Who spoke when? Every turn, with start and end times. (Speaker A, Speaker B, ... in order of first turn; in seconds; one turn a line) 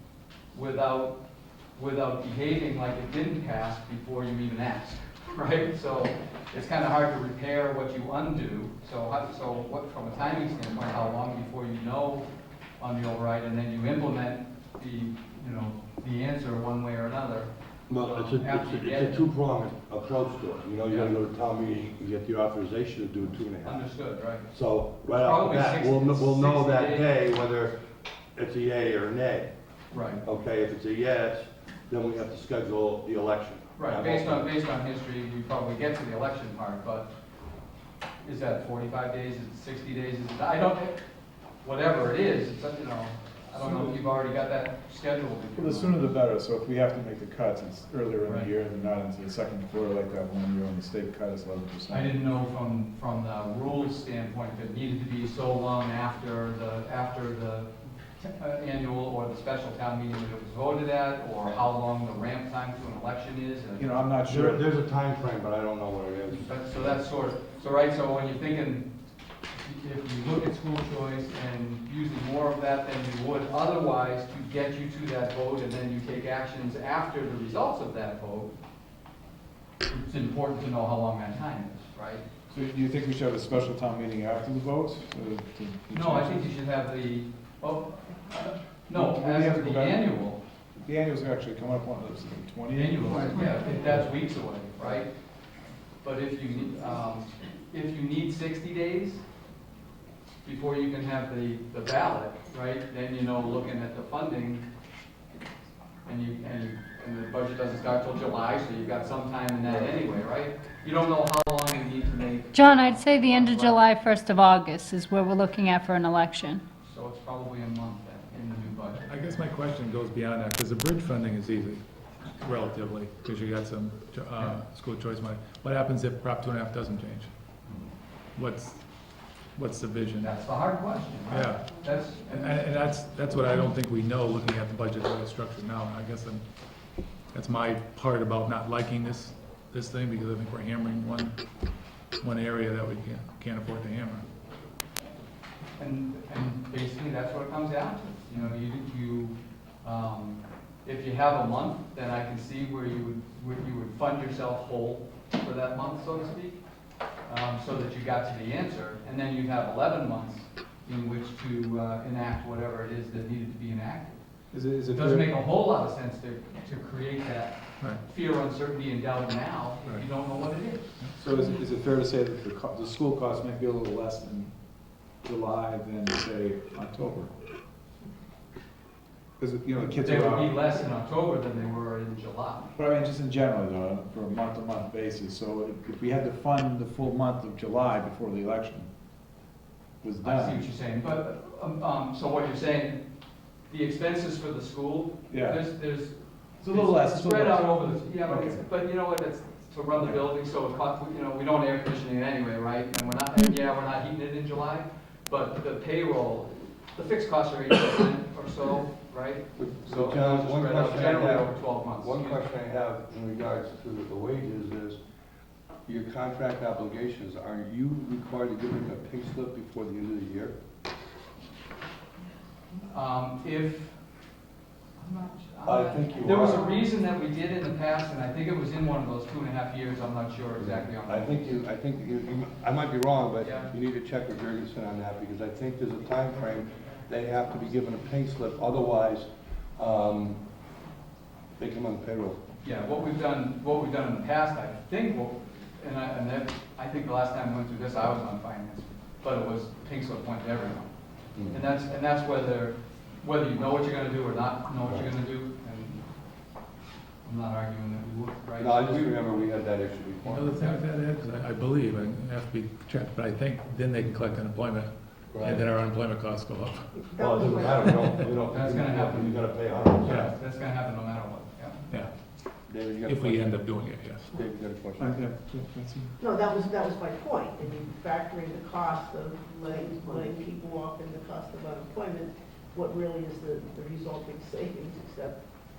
Speaker A: 0.5-1.2
Speaker A: 1.8-12.3
Speaker A: 12.8-19.2
Speaker B: 17.9-23.9
Speaker A: 20.9-21.1
Speaker A: 23.6-24.5
Speaker B: 24.5-27.7
Speaker A: 25.1-27.2
Speaker B: 28.4-29.5
Speaker A: 29.9-30.2
Speaker B: 30.2-34.5
Speaker A: 33.8-37.1
Speaker A: 38.2-41.0
Speaker A: 41.6-46.1
Speaker C: 43.6-44.0
Speaker C: 45.5-52.1
Speaker A: 48.3-48.5
Speaker A: 51.9-63.9
Speaker C: 63.8-64.6
Speaker B: 64.3-66.5
Speaker A: 66.4-68.9
Speaker A: 69.5-78.5
Speaker A: 79.9-82.2
Speaker C: 82.5-86.5
Speaker A: 85.9-90.4
Speaker C: 88.9-90.2
Speaker C: 90.8-93.3
Speaker A: 92.7-95.1
Speaker D: 93.4-93.7
Speaker A: 96.0-99.2
Speaker A: 100.4-104.7
Speaker A: 106.1-113.8
Speaker D: 112.5-116.6
Speaker A: 116.8-119.1
Speaker E: 119.1-121.8
Speaker E: 122.4-127.3
Speaker E: 128.4-128.8
Speaker E: 129.6-130.3
Speaker A: 130.2-132.6
Speaker E: 131.3-131.7
Speaker E: 132.3-136.4
Speaker E: 137.3-141.4
Speaker E: 142.2-144.2
Speaker A: 145.8-156.6
Speaker A: 157.3-164.2
Speaker C: 164.5-165.3
Speaker A: 164.9-170.9
Speaker C: 171.2-174.5
Speaker C: 175.2-177.3
Speaker C: 179.4-180.6
Speaker A: 180.0-182.7
Speaker C: 182.8-188.9
Speaker C: 190.0-190.6
Speaker A: 190.2-193.0
Speaker A: 193.7-212.4
Speaker C: 195.3-195.6
Speaker C: 196.6-198.6
Speaker C: 200.0-200.2
Speaker B: 209.6-215.0
Speaker B: 215.9-220.6
Speaker A: 222.9-224.0
Speaker A: 225.0-231.5
Speaker B: 225.6-226.7
Speaker B: 230.6-240.4
Speaker A: 233.4-233.7
Speaker B: 241.6-242.4
Speaker A: 242.6-250.9
Speaker B: 251.3-251.6
Speaker A: 251.5-256.1
Speaker B: 254.8-255.1
Speaker A: 257.2-259.2
Speaker B: 258.6-260.6
Speaker E: 260.2-267.1
Speaker B: 265.3-265.7
Speaker F: 267.0-268.2
Speaker B: 267.2-270.3
Speaker A: 268.5-271.9
Speaker E: 270.1-270.3
Speaker B: 272.7-273.7
Speaker E: 273.1-274.3
Speaker B: 274.3-275.2
Speaker C: 275.0-276.2
Speaker F: 276.2-285.4